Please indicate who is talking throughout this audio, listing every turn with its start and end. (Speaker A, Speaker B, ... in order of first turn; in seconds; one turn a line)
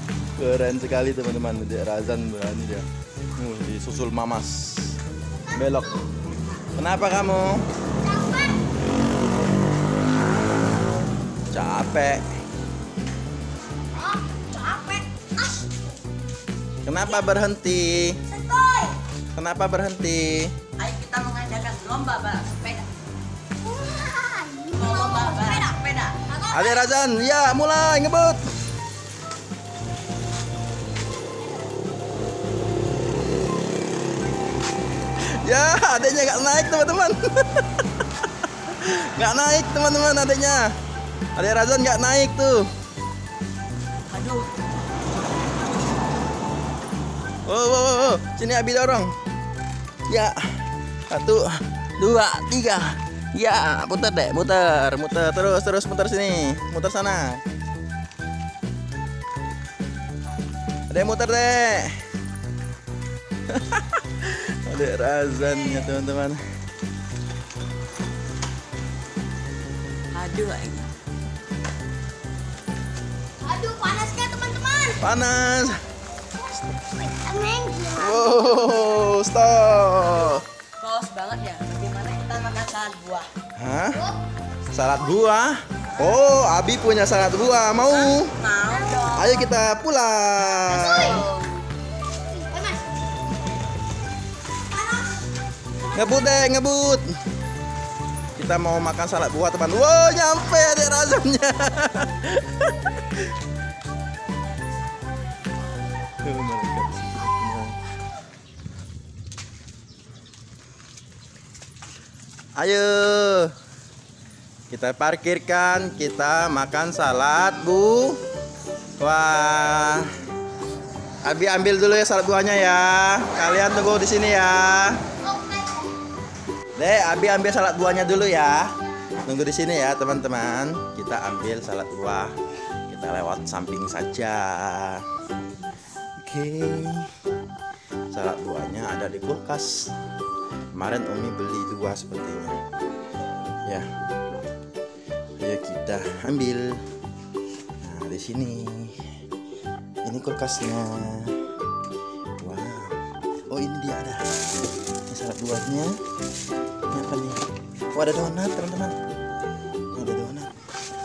Speaker A: 0.4-2.9
Speaker A: 3.4-5.0
Speaker B: 5.4-6.0
Speaker A: 5.5-6.0
Speaker A: 6.8-7.6
Speaker B: 8.0-8.6
Speaker A: 11.5-12.2
Speaker B: 13.8-15.8
Speaker A: 16.9-18.2
Speaker B: 16.9-17.3
Speaker B: 18.3-19.0
Speaker A: 19.3-20.5
Speaker C: 20.8-22.9
Speaker B: 23.6-27.0
Speaker C: 24.7-26.2
Speaker A: 26.5-28.4
Speaker A: 35.3-37.8
Speaker A: 38.6-40.7
Speaker A: 41.4-42.7
Speaker C: 44.1-44.5
Speaker A: 47.5-49.1
Speaker A: 50.1-50.4
Speaker A: 51.1-57.4
Speaker A: 60.9-62.0
Speaker A: 63.5-66.4
Speaker C: 70.1-70.9
Speaker B: 73.4-75.0
Speaker A: 75.0-75.8
Speaker B: 76.4-78.7
Speaker A: 78.0-80.4
Speaker C: 80.8-83.3
Speaker A: 83.5-84.0
Speaker A: 84.7-88.3
Speaker C: 87.9-89.4
Speaker B: 88.7-89.1
Speaker A: 89.1-91.2
Speaker C: 90.7-91.6
Speaker B: 90.7-91.2
Speaker B: 92.3-93.4
Speaker B: 94.7-95.2
Speaker B: 95.8-96.3
Speaker A: 95.9-97.1
Speaker A: 98.3-103.3
Speaker A: 106.2-107.8
Speaker A: 112.6-113.5
Speaker A: 114.7-118.2
Speaker A: 119.0-120.1
Speaker A: 121.2-125.0
Speaker B: 123.4-123.8
Speaker B: 125.2-125.9
Speaker A: 126.8-128.7
Speaker A: 129.2-132.3
Speaker A: 132.9-135.0
Speaker A: 136.2-137.1
Speaker A: 138.1-139.9
Speaker A: 140.7-142.6
Speaker A: 145.4-146.8
Speaker A: 147.8-149.0
Speaker A: 150.0-151.4
Speaker A: 152.4-154.3
Speaker A: 155.1-155.9
Speaker A: 156.9-158.9
Speaker A: 159.9-160.5